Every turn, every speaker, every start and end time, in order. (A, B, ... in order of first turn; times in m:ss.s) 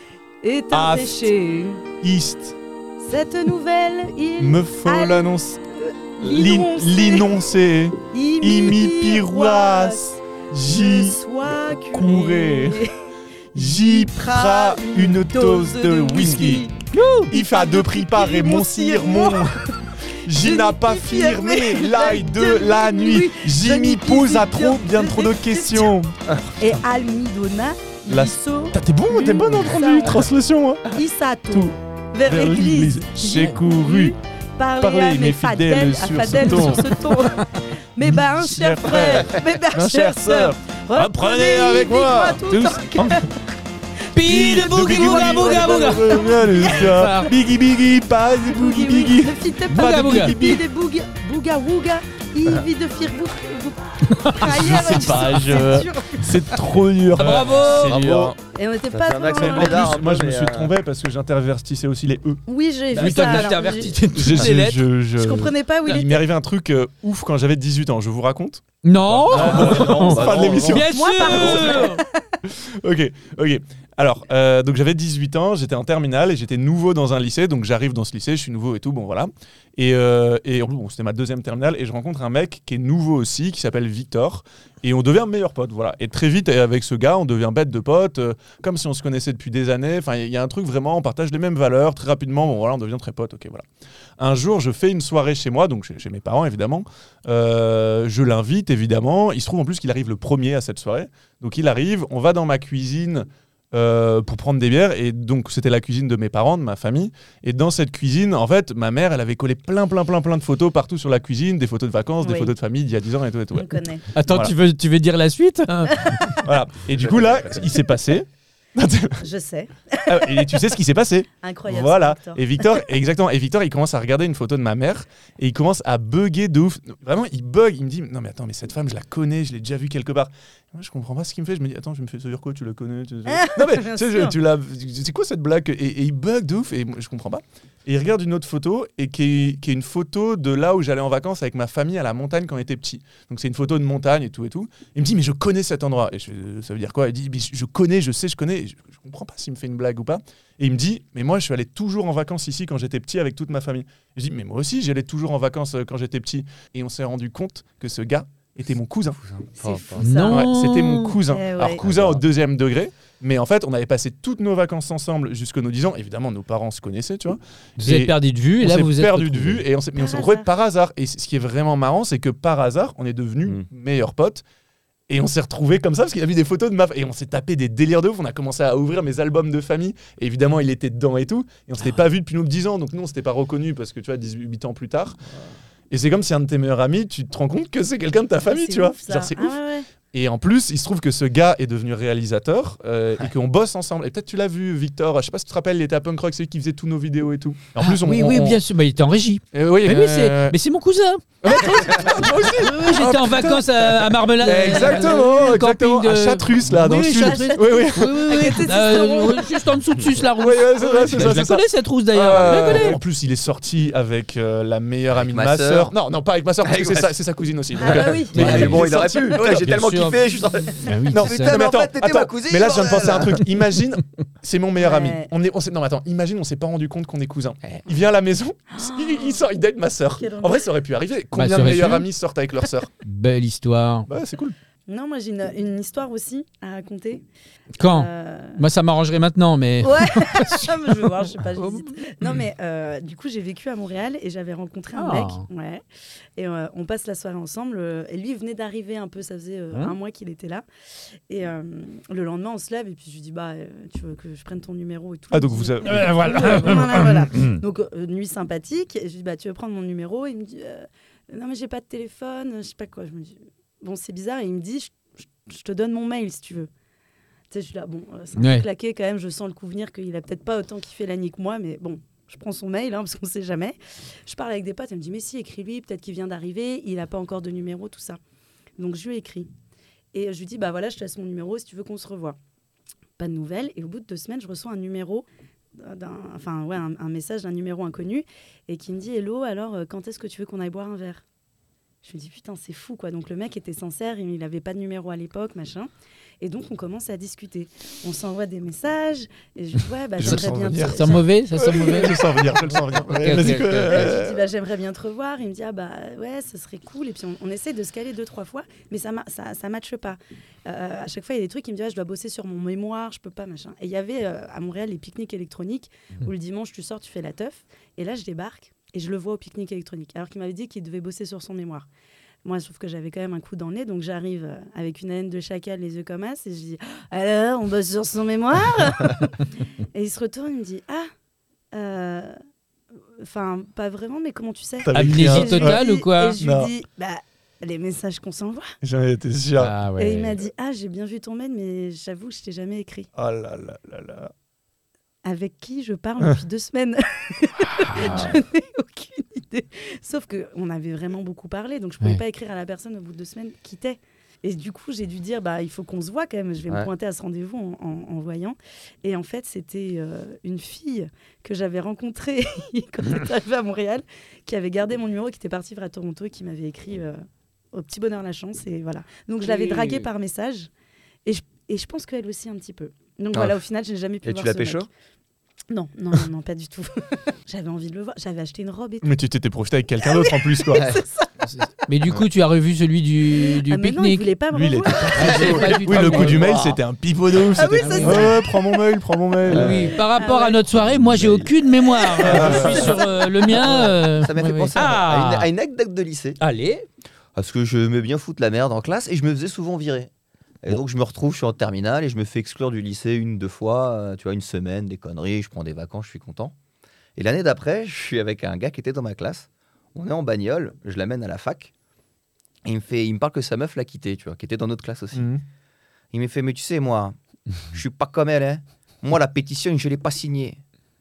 0:00.4-0:01.8 A
0:00.7-0:01.3 B
0:02.0-0:02.6 B
0:03.0-0:07.3 A
0:04.4-0:05.6 B
0:06.2-0:11.2 B
0:08.1-0:13.0 A
0:11.9-0:12.8 B
0:13.5-0:16.7 B
0:13.5-0:16.8 A
0:16.9-0:17.3 C
0:17.3-0:19.6 B
0:17.3-0:19.8 A
0:20.2-0:26.4 B
0:20.3-0:26.0 A
0:26.6-0:30.2 A
0:28.1-0:30.9 B
0:30.9-0:43.4 A
0:31.5-0:34.2 B
0:34.8-0:37.4 B
0:38.0-0:43.3 B
0:44.1-0:47.3 C
0:44.2-0:50.6 B
0:44.3-0:47.2 A
0:48.5-0:56.6 A
0:49.7-0:50.5 C
0:54.1-0:55.7 C
0:54.4-0:58.4 B
0:57.1-0:58.2 C
0:57.8-0:58.4 D
0:58.5-1:00.0 A
0:58.9-1:00.8 D
0:59.3-1:02.4 B
1:02.5-1:04.0 A
1:02.9-1:04.9 C
1:03.0-1:11.8 B
1:05.2-1:06.2 A
1:08.8-1:12.0 C
1:09.3-1:11.9 D
1:10.9-1:12.0 A
1:12.4-1:33.6 B
1:34.2-1:54.5 B
1:52.2-1:52.5 A
1:53.5-1:54.0 A
1:54.1-1:56.2 C
1:55.9-1:56.4 A
1:56.3-1:59.2 B
1:56.9-1:57.7 D
1:59.2-2:00.6 A
2:00.1-2:39.2 B
2:01.4-2:02.7 A
2:13.3-2:14.4 A
2:39.2-2:40.2 D
2:39.6-2:40.5 A
2:40.0-2:41.2 C
2:40.3-2:54.4 B
2:41.3-2:41.8 A
2:41.7-2:42.2 D
2:47.8-2:49.6 C
2:50.0-2:50.5 A
2:55.1-3:05.2 B
3:05.9-3:09.6 B
3:08.5-3:09.8 A
3:10.1-3:18.6 B
3:17.8-3:21.2 C
3:19.5-3:20.6 B
3:21.4-3:28.6 B
3:21.9-3:33.0 C
3:24.7-3:25.0 A
3:27.2-3:29.6 A
3:30.2-3:39.8 B
3:35.1-3:35.9 D
3:36.6-3:37.1 D
3:37.8-3:38.4 A
3:37.8-3:43.4 D
3:38.3-3:40.2 C
3:40.8-3:41.6 C
3:41.1-3:52.9 B
3:44.8-3:45.3 A
3:48.7-3:49.4 A
3:50.2-3:50.7 A
3:51.3-3:52.1 C
3:53.0-3:54.1 C
3:54.1-3:54.6 B
3:54.9-3:57.2 A
3:57.8-4:01.0 C
3:57.8-3:58.6 A
3:59.8-4:05.8 A
4:01.5-4:01.9 C
4:05.0-4:05.4 C
4:06.4-4:10.6 A
4:11.3-4:26.7 A
4:15.3-4:16.9 B
4:15.8-4:17.6 C
4:27.5-4:38.2 A
4:28.4-4:28.6 C
4:38.8-4:39.5 A
4:40.1-4:42.4 A
4:43.2-4:45.2 A
4:45.8-4:51.2 A
4:52.0-4:55.9 A
4:56.4-5:01.2 A
5:00.2-5:04.4 B
5:00.2-5:04.1 C
5:03.3-5:21.8 A
5:22.4-5:31.1 A
5:31.7-5:32.3 A
5:33.2-5:38.7 A
5:34.8-5:35.8 B
5:34.9-5:36.4 C
5:36.4-5:36.7 B
5:38.8-5:39.7 B
5:39.6-5:40.4 C
5:40.0-5:43.1 A
5:43.2-5:44.3 B
5:45.2-6:07.2 A
5:47.7-5:48.3 C
6:07.7-6:10.7 A
6:09.4-6:10.1 C
6:11.2-6:14.9 A
6:13.3-6:13.6 D
6:14.2-6:14.9 D
6:15.7-6:19.1 A
6:19.0-6:21.0 B
6:20.0-6:21.6 A
6:20.7-6:21.0 D
6:21.8-6:24.3 C
6:23.3-6:25.9 A
6:24.5-6:29.9 B
6:25.1-6:26.5 C
6:25.9-6:26.8 D
6:27.4-6:28.6 A
6:27.7-6:28.4 C
6:29.5-6:35.5 C
6:29.5-6:30.0 D
6:29.9-6:30.6 A
6:30.7-6:31.6 D
6:31.9-6:33.4 A
6:32.2-6:33.0 B
6:33.6-6:36.4 D
6:33.6-6:33.9 B
6:36.4-6:36.8 C
6:37.3-6:40.1 D
6:40.6-6:46.5 D
6:47.2-6:51.7 D
6:52.6-6:55.3 D
6:55.1-6:55.4 B
6:56.1-6:57.2 D
6:57.7-7:00.6 D